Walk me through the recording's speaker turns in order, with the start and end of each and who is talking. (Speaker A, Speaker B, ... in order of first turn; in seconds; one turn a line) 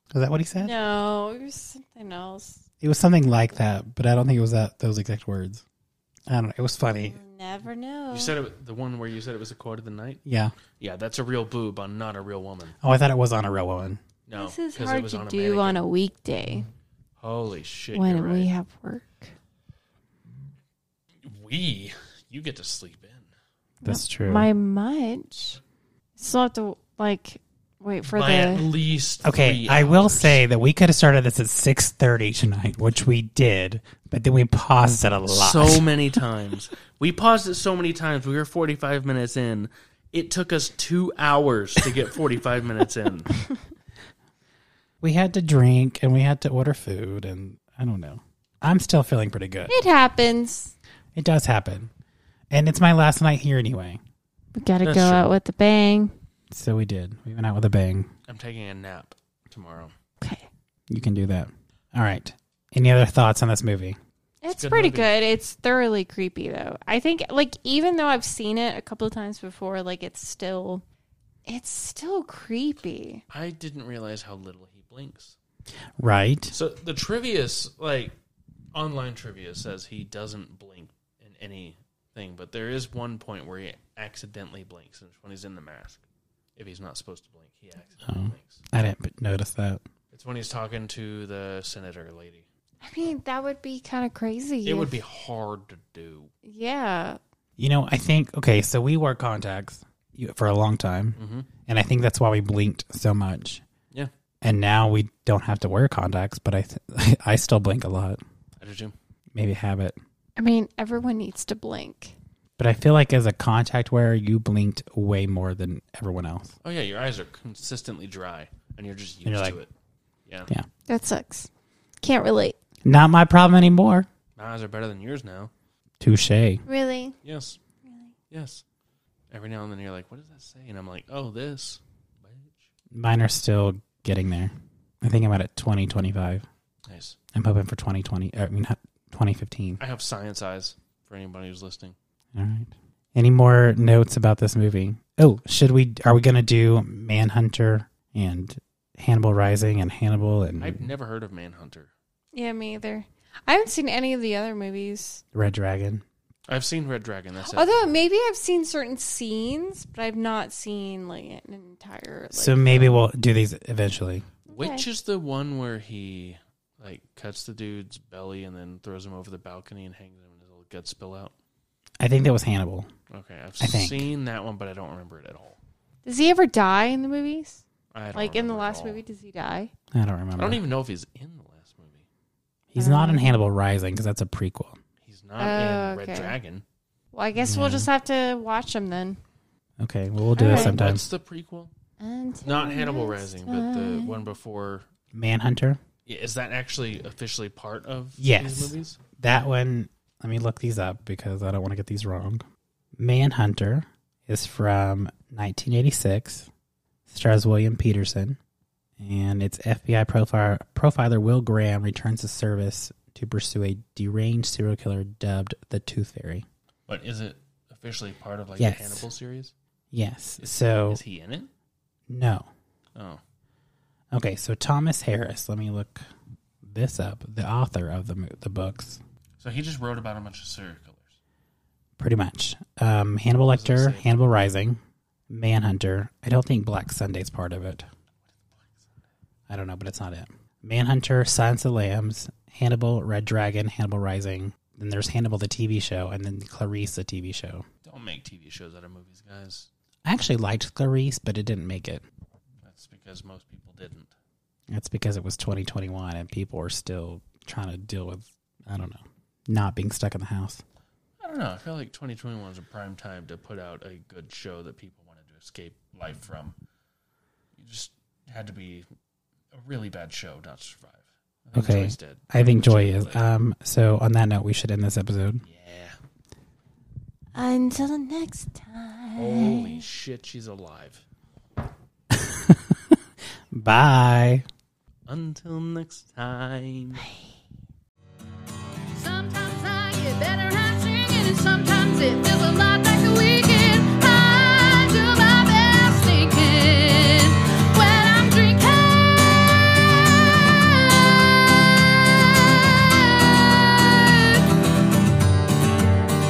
Speaker A: 0.1-0.8
Speaker B: 0.6-2.6
Speaker A: 2.8-5.6
Speaker A: 6.3-7.2
Speaker B: 7.1-8.4
Speaker C: 8.1-10.2
Speaker A: 10.3-10.6
Speaker C: 10.8-12.8
Speaker A: 12.8-14.0
Speaker C: 14.3-15.8
Speaker B: 14.4-16.7
Speaker C: 17.2-18.5
Speaker B: 17.9-19.3
Speaker C: 21.2-23.3
Speaker B: 23.8-25.6
Speaker A: 23.9-24.5
Speaker B: 26.2-28.7
Speaker C: 28.1-30.4
Speaker A: 29.2-35.9
Speaker C: 35.3-43.3
Speaker A: 45.0-49.7
Speaker B: 49.7-50.7
Speaker A: 51.1-51.9
Speaker A: 52.5-54.0
Speaker B: 54.5-56.1
Speaker C: 54.8-55.3
Speaker A: 56.5-58.1
Speaker C: 58.3-59.9
Speaker B: 60.2-60.5
Speaker A: 60.9-64.0
Speaker B: 64.4-70.8
Speaker C: 64.5-65.1
Speaker B: 71.5-73.2
Speaker C: 73.3-75.4
Speaker A: 76.0-76.5
Speaker C: 76.5-78.2
Speaker C: 78.7-86.0
Speaker C: 86.6-88.6
Speaker A: 88.0-89.8
Speaker C: 90.1-92.5
Speaker B: 92.8-94.9
Speaker C: 94.7-96.3
Speaker B: 96.4-97.2
Speaker A: 97.6-103.6
Speaker C: 101.2-101.5
Speaker A: 104.4-108.2
Speaker C: 108.6-109.0
Speaker A: 109.3-110.0
Speaker B: 110.4-112.2
Speaker A: 112.6-116.5
Speaker C: 116.6-119.7
Speaker A: 119.2-119.6
Speaker B: 120.9-121.5
Speaker B: 122.0-122.6
Speaker A: 122.8-124.1
Speaker C: 124.4-125.5
Speaker A: 126.0-126.6
Speaker B: 126.7-127.2
Speaker C: 127.2-127.6
Speaker B: 127.8-128.1
Speaker C: 128.3-128.6
Speaker C: 129.3-132.6
Speaker A: 132.9-136.4
Speaker C: 136.9-137.2
Speaker A: 137.3-139.8
Speaker C: 139.8-141.9
Speaker A: 142.3-150.8
Speaker C: 150.6-151.9
Speaker B: 152.3-155.2
Speaker A: 155.3-156.0
Speaker C: 156.5-157.7
Speaker B: 157.5-162.8
Speaker A: 162.3-164.3
Speaker C: 162.7-163.0
Speaker B: 164.5-164.9
Speaker C: 164.5-171.3
Speaker A: 172.0-172.9
Speaker C: 173.1-175.6
Speaker A: 173.6-174.1
Speaker B: 176.1-177.6
Speaker C: 177.9-179.0
Speaker B: 178.1-179.7
Speaker A: 179.9-180.6
Speaker C: 180.4-182.1
Speaker A: 182.7-184.8
Speaker B: 182.8-183.4
Speaker C: 185.0-186.7
Speaker B: 185.4-186.4
Speaker B: 187.1-189.2
Speaker A: 187.4-187.9
Speaker A: 189.8-191.1
Speaker B: 190.4-190.8
Speaker C: 190.4-191.7
Speaker B: 192.0-194.2
Speaker C: 192.4-194.9
Speaker A: 195.1-195.8
Speaker C: 196.1-199.0
Speaker A: 198.2-202.5
Speaker A: 203.0-206.5
Speaker A: 207.1-208.4
Speaker A: 209.0-216.5
Speaker C: 216.9-219.5
Speaker A: 218.6-219.1
Speaker A: 219.9-221.0
Speaker C: 220.4-221.5
Speaker A: 222.1-222.5
Speaker A: 224.1-226.1
Speaker A: 226.6-229.0
Speaker C: 229.4-231.2
Speaker A: 232.0-237.9
Speaker C: 233.5-234.3
Speaker C: 238.6-238.9
Speaker A: 239.5-247.7
Speaker C: 247.8-249.7
Speaker A: 250.1-252.0
Speaker C: 252.6-254.1
Speaker A: 254.7-260.6
Speaker C: 261.2-266.6
Speaker C: 267.6-268.9
Speaker C: 269.5-273.2
Speaker A: 271.6-275.4
Speaker C: 275.4-276.0
Speaker B: 277.3-279.8
Speaker C: 279.2-281.0
Speaker A: 282.1-283.0
Speaker A: 283.5-284.4
Speaker C: 285.1-287.1
Speaker D: 288.9-304.4